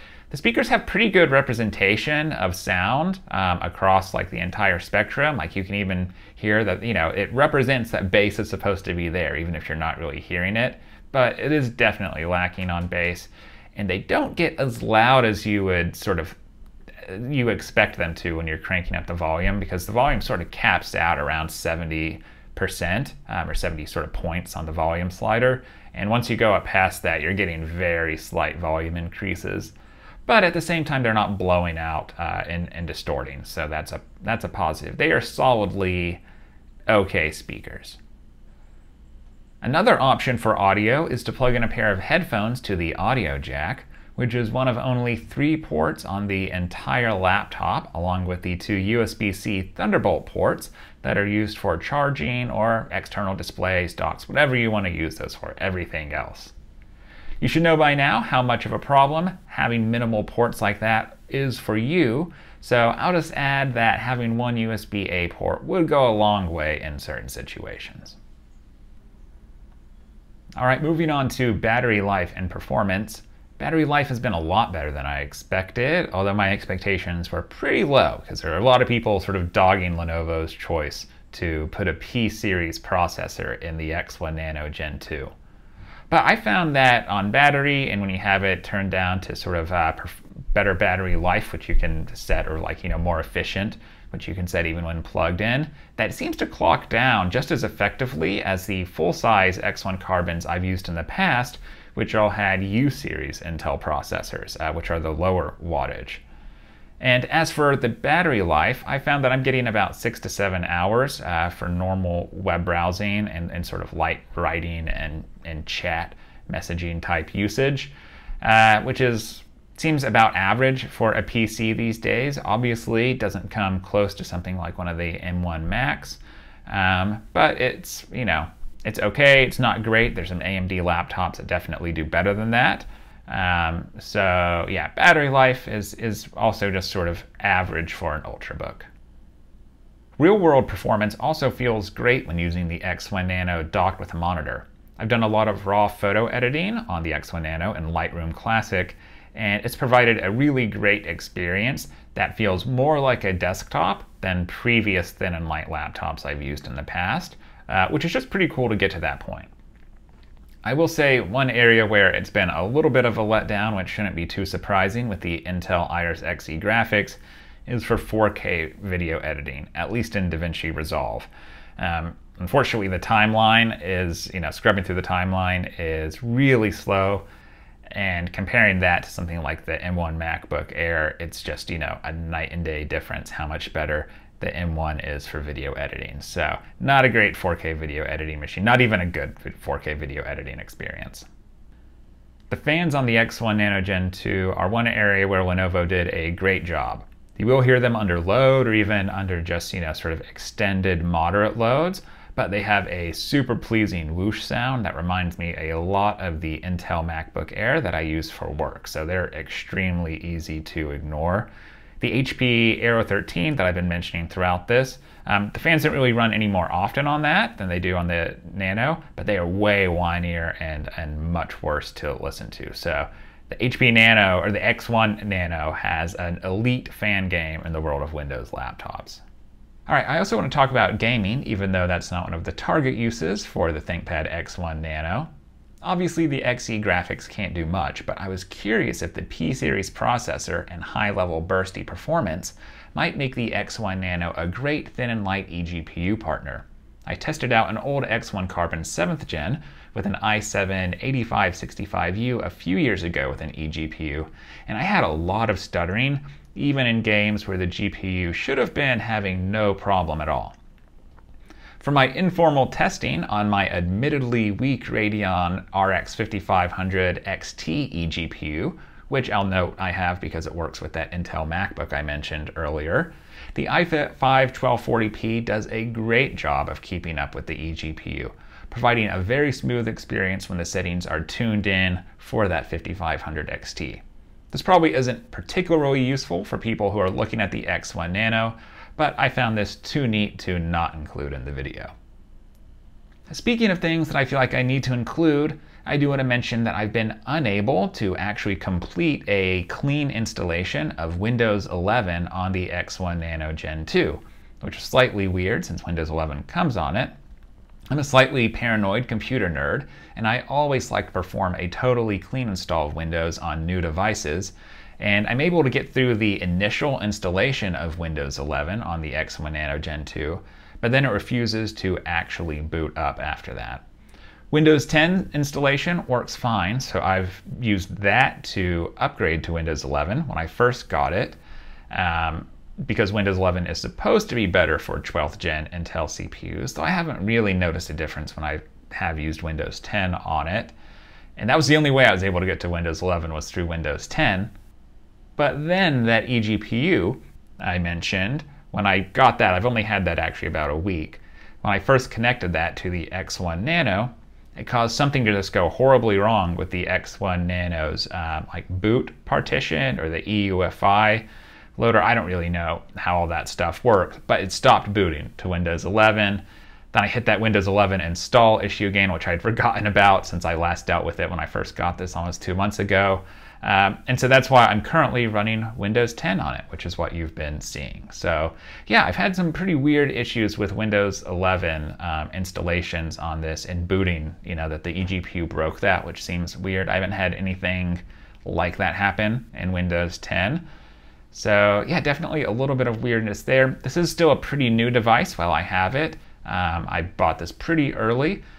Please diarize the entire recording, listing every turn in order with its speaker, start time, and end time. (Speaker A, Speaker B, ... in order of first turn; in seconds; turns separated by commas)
Speaker A: 0.3-16.4, Speaker A: 17.0-29.7, Speaker A: 30.2-36.2, Speaker A: 36.9-38.0, Speaker A: 39.6-56.5, Speaker A: 57.4-68.2, Speaker A: 70.6-85.3, Speaker A: 86.1-106.2, Speaker A: 107.0-138.9, Speaker A: 140.2-159.5, Speaker A: 160.6-177.2, Speaker A: 177.9-191.3, Speaker A: 192.5-211.5, Speaker A: 212.0-229.2, Speaker A: 229.9-235.3, Speaker A: 235.8-260.6, Speaker A: 261.8-291.9, Speaker A: 293.3-307.1, Speaker A: 307.9-323.8, Speaker A: 324.5-331.4, Speaker A: 331.9-340.7, Speaker A: 341.4-344.5, Speaker A: 345.4-361.2, Speaker A: 361.8-390.6, Speaker A: 391.3-398.4